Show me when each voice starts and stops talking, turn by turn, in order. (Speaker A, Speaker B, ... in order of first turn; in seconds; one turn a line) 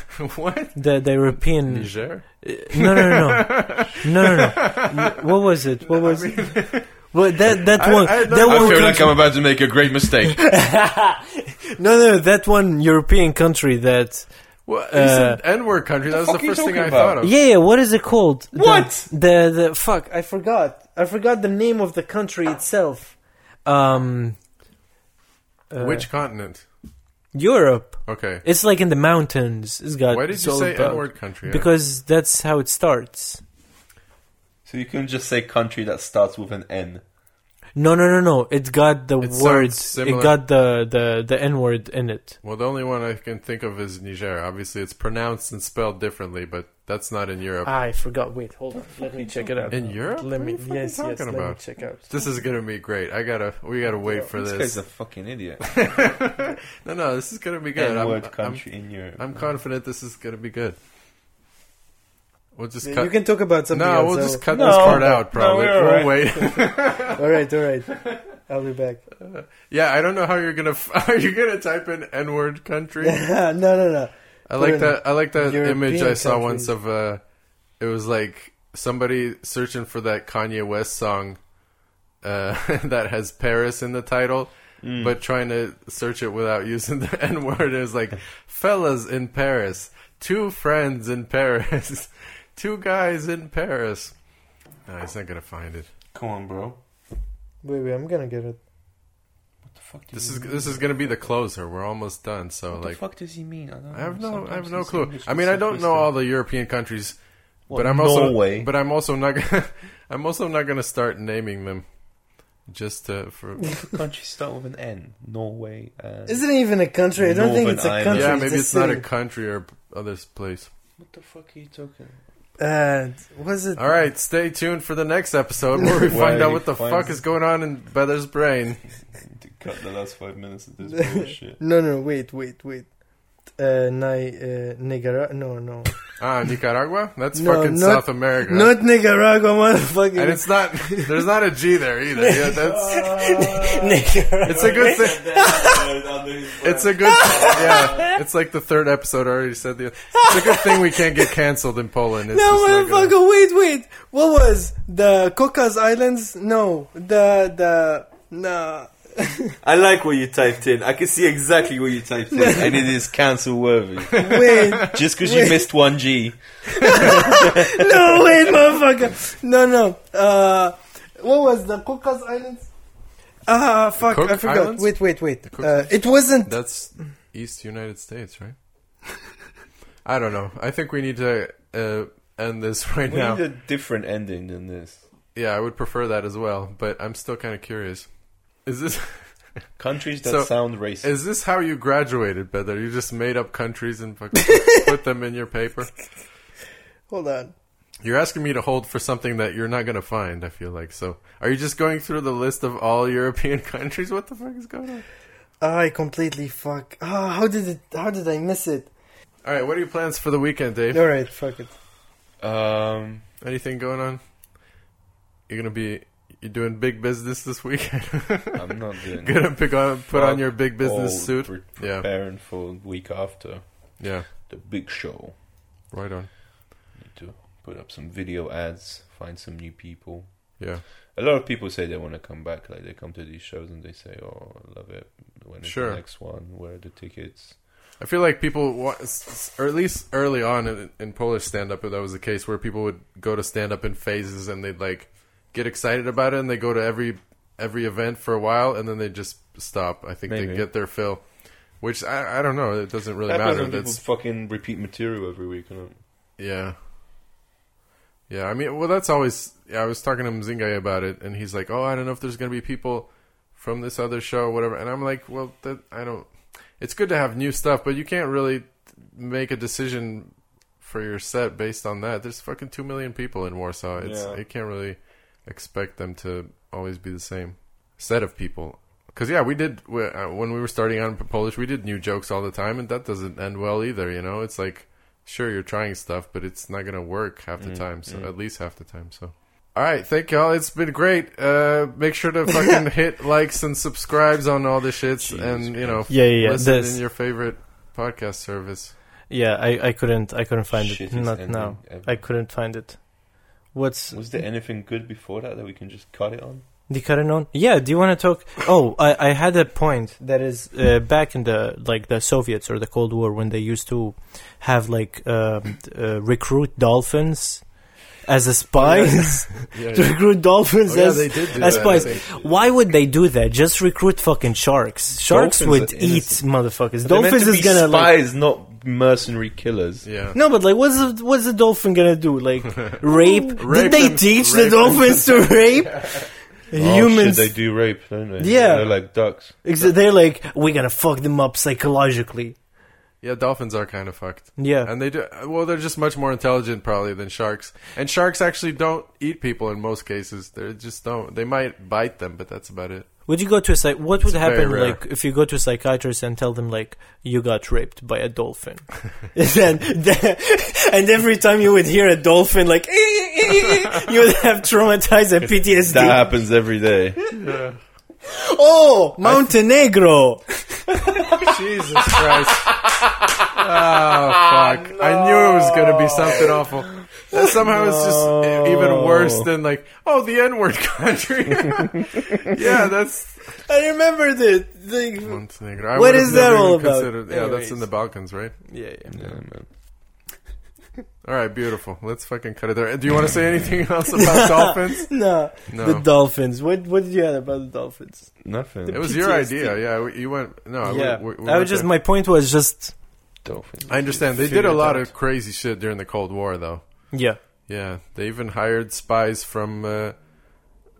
Speaker A: 0.2-4.9
Speaker B: 0.7-9.7
Speaker A: 5.9-7.2
Speaker A: 7.8-9.2
Speaker C: 8.4-10.8
Speaker B: 10.5-11.1
Speaker B: 11.8-15.4
Speaker A: 14.7-17.3
Speaker C: 16.1-17.3
Speaker B: 17.2-24.4
Speaker C: 18.5-19.1
Speaker B: 25.7-26.1
Speaker A: 25.8-26.7
Speaker B: 27.3-33.4
Speaker A: 28.1-28.4
Speaker A: 30.1-31.7
Speaker C: 34.6-37.0
Speaker B: 37.7-42.4
Speaker A: 39.2-40.4
Speaker A: 42.4-47.8
Speaker B: 47.6-52.1
Speaker C: 49.0-50.0
Speaker A: 49.7-55.0
Speaker C: 54.3-55.9
Speaker A: 55.6-60.8
Speaker C: 57.7-59.5
Speaker A: 62.5-67.2
Speaker B: 62.8-69.0
Speaker C: 64.5-66.3
Speaker A: 69.2-73.4
Speaker B: 73.0-76.7
Speaker A: 74.5-81.6
Speaker A: 82.2-95.9
Speaker C: 84.8-85.2
Speaker C: 96.1-96.8
Speaker B: 97.6-98.6
Speaker C: 99.6-101.3
Speaker A: 100.1-113.9
Speaker C: 102.7-106.1
Speaker C: 107.7-108.7
Speaker C: 113.7-118.4
Speaker B: 116.3-119.0
Speaker A: 118.1-120.7
Speaker C: 121.0-122.2
Speaker B: 122.6-123.9
Speaker A: 123.8-129.0
Speaker C: 126.0-127.2
Speaker C: 129.2-131.6
Speaker B: 130.9-136.0
Speaker A: 136.2-138.9
Speaker B: 137.3-141.1
Speaker A: 140.1-143.2
Speaker B: 142.2-145.8
Speaker C: 142.7-148.2
Speaker A: 144.4-145.5
Speaker A: 146.6-153.2
Speaker B: 147.1-148.1
Speaker B: 150.1-150.8
Speaker B: 152.3-159.5
Speaker C: 159.6-168.2
Speaker B: 162.3-162.7
Speaker B: 164.2-165.7
Speaker B: 166.8-172.7
Speaker B: 173.4-176.5
Speaker A: 174.0-178.6
Speaker A: 180.0-183.4
Speaker C: 183.1-185.0
Speaker A: 185.3-189.7
Speaker C: 189.8-191.1
Speaker A: 190.2-196.1
Speaker B: 197.1-197.5
Speaker A: 198.0-205.1
Speaker B: 205.6-208.9
Speaker A: 209.4-211.2
Speaker B: 210.9-211.7
Speaker C: 212.4-213.3
Speaker A: 213.4-214.8
Speaker A: 215.5-218.7
Speaker C: 218.5-225.4
Speaker A: 219.2-222.1
Speaker A: 224.0-224.3
Speaker A: 225.9-226.3
Speaker C: 226.9-237.6
Speaker A: 230.6-230.8
Speaker A: 235.6-236.0
Speaker A: 238.0-254.0
Speaker C: 250.3-250.7
Speaker C: 253.2-256.0
Speaker A: 256.4-256.8
Speaker A: 258.3-298.9
Speaker C: 274.0-274.4
Speaker C: 287.6-288.3
Speaker C: 295.2-296.2
Speaker B: 296.1-297.0
Speaker B: 299.3-304.4
Speaker C: 300.7-302.3
Speaker C: 304.1-306.6
Speaker B: 306.9-328.1
Speaker A: 318.8-322.3
Speaker C: 321.5-322.7
Speaker C: 325.2-330.1
Speaker A: 330.0-330.4
Speaker B: 330.3-342.6
Speaker A: 333.5-336.1
Speaker C: 336.7-339.6
Speaker A: 338.6-338.9
Speaker A: 343.2-353.3
Speaker B: 344.6-344.9
Speaker B: 353.2-366.4
Speaker A: 354.2-355.0
Speaker C: 365.4-367.2
Speaker A: 367.4-367.8
Speaker B: 368.2-371.3
Speaker A: 371.2-372.9
Speaker A: 373.5-383.7
Speaker C: 374.4-377.0
Speaker C: 377.6-379.5
Speaker B: 383.6-389.1
Speaker A: 385.2-389.2
Speaker C: 389.1-389.8
Speaker A: 391.2-396.1
Speaker B: 394.2-400.0
Speaker C: 398.4-399.1
Speaker A: 398.9-401.9
Speaker B: 400.8-403.0
Speaker C: 403.4-405.1
Speaker A: 403.9-410.8
Speaker B: 407.1-407.4